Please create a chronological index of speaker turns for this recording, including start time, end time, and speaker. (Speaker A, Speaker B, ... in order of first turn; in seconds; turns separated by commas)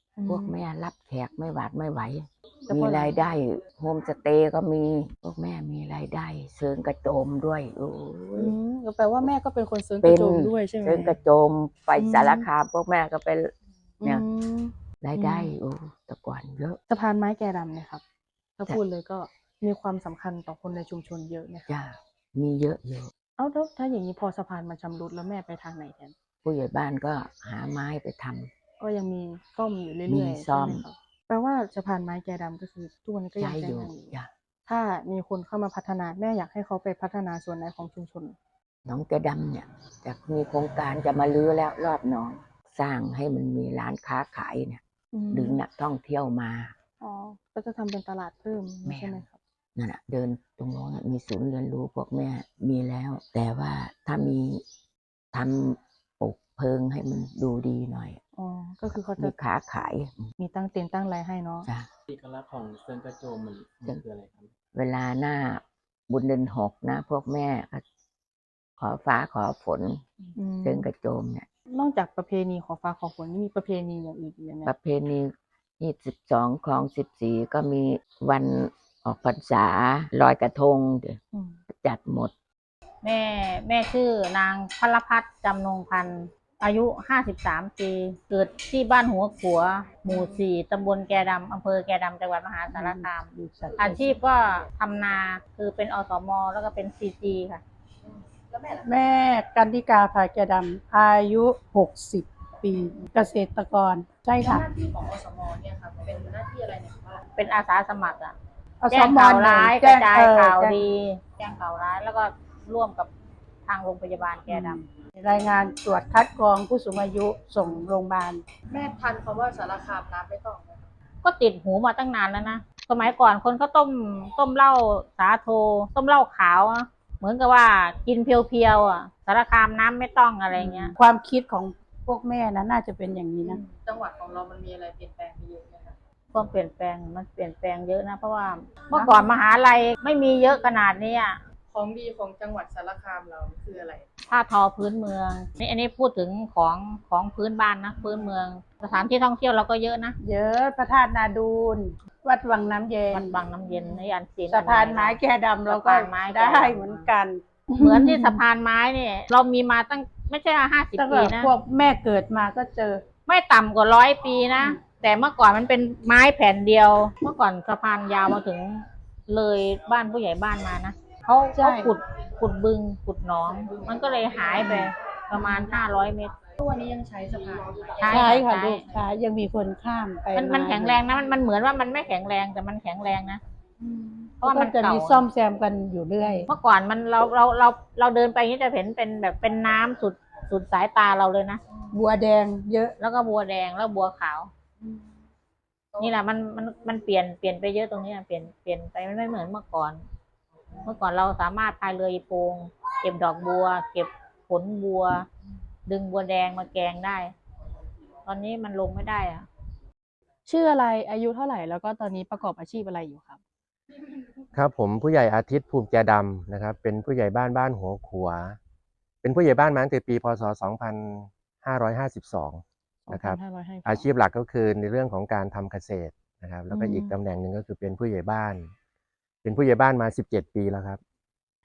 Speaker A: 0.2-0.6, Speaker B: 0.3-8.5, Speaker A: 2.7-3.2, Speaker A: 8.3-11.2, Speaker B: 10.0-13.5, Speaker A: 11.9-12.5, Speaker A: 14.0-15.6, Speaker B: 15.0-16.8, Speaker A: 16.9-18.0, Speaker A: 18.6-21.7, Speaker B: 21.7-23.1, Speaker A: 23.4-26.1, Speaker B: 26.4-28.5, Speaker A: 28.8-34.1, Speaker B: 30.1-30.8, Speaker B: 33.4-34.3, Speaker A: 34.6-38.4, Speaker B: 38.9-44.8, Speaker A: 45.1-45.6, Speaker B: 45.3-46.7, Speaker A: 47.0-49.4, Speaker B: 48.8-49.2, Speaker B: 49.8-54.6, Speaker B: 55.3-58.2, Speaker A: 58.4-59.4, Speaker B: 59.2-60.3, Speaker A: 60.4-61.7, Speaker B: 61.6-61.9, Speaker C: 62.1-64.5, Speaker B: 64.7-67.8, Speaker B: 68.8-71.5, Speaker A: 70.3-70.9, Speaker A: 71.7-74.7, Speaker B: 74.6-82.3, Speaker A: 81.3-81.6, Speaker D: 83.0-97.6, Speaker A: 90.1-90.4, Speaker E: 92.7-94.1, Speaker E: 98.8-104.7, Speaker A: 104.4-107.2, Speaker D: 107.3-108.3, Speaker E: 108.8-110.8, Speaker D: 108.9-113.1, Speaker D: 113.7-114.8, Speaker E: 114.5-118.4, Speaker A: 118.7-120.9, Speaker D: 121.2-130.9, Speaker E: 130.6-133.6, Speaker A: 133.4-135.9, Speaker D: 136.3-141.4, Speaker E: 138.9-139.3, Speaker A: 141.7-144.0, Speaker D: 144.3-150.2, Speaker A: 148.0-148.3, Speaker E: 150.2-153.3, Speaker D: 153.1-157.1, Speaker E: 154.5-158.4, Speaker D: 157.8-161.5, Speaker E: 161.0-163.0, Speaker D: 163.2-176.3, Speaker E: 171.5-171.9, Speaker A: 173.7-175.8, Speaker A: 176.5-179.0, Speaker D: 178.0-178.9, Speaker E: 178.0-181.0, Speaker D: 180.3-183.4, Speaker A: 183.8-184.3, Speaker D: 184.4-185.3, Speaker E: 184.4-186.5, Speaker D: 186.5-191.6, Speaker E: 191.9-192.9, Speaker D: 193.0-194.5, Speaker D: 196.0-200.0, Speaker D: 200.8-205.3, Speaker D: 205.9-207.3, Speaker D: 208.2-209.5, Speaker A: 210.4-213.4, Speaker F: 214.5-218.6, Speaker F: 219.2-228.7, Speaker A: 223.1-224.1, Speaker A: 226.7-227.2, Speaker F: 229.4-231.0